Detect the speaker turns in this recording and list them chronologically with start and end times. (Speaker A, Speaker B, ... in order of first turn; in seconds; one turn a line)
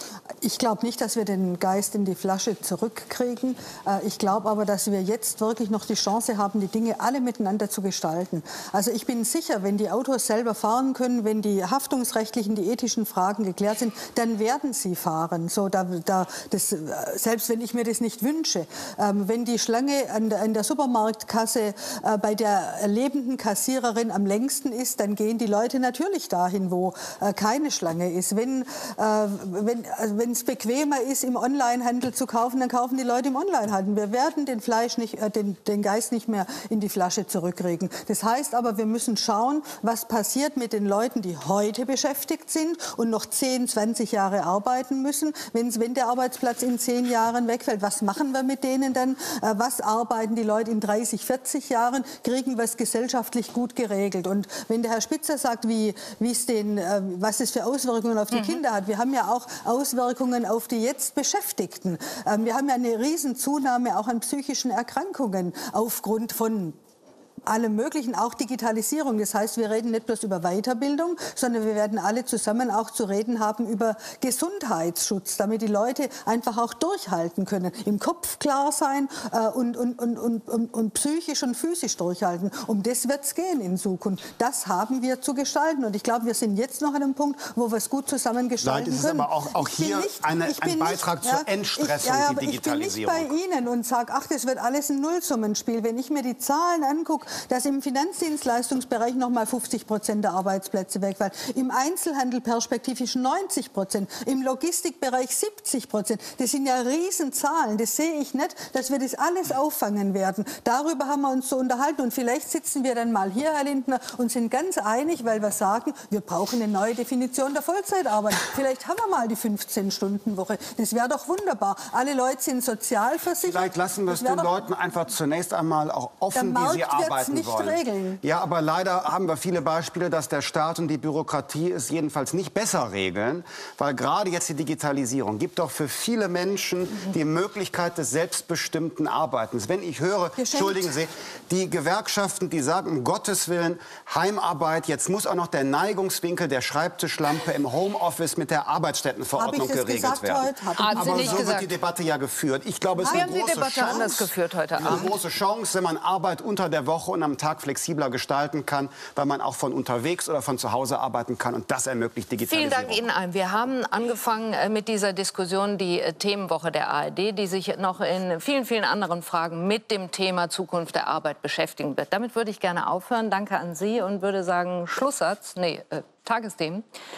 Speaker A: 0.4-66.8
Speaker B: 58.3-58.6
Speaker A: 67.5-124.5
Speaker C: 88.6-93.3
Speaker C: 123.4-154.2
Speaker A: 126.3-128.2
Speaker A: 140.4-140.9
Speaker A: 149.4-151.5
Speaker B: 150.8-151.7
Speaker A: 153.0-154.2
Speaker B: 153.0-155.2
Speaker C: 154.8-163.0
Speaker B: 162.4-176.8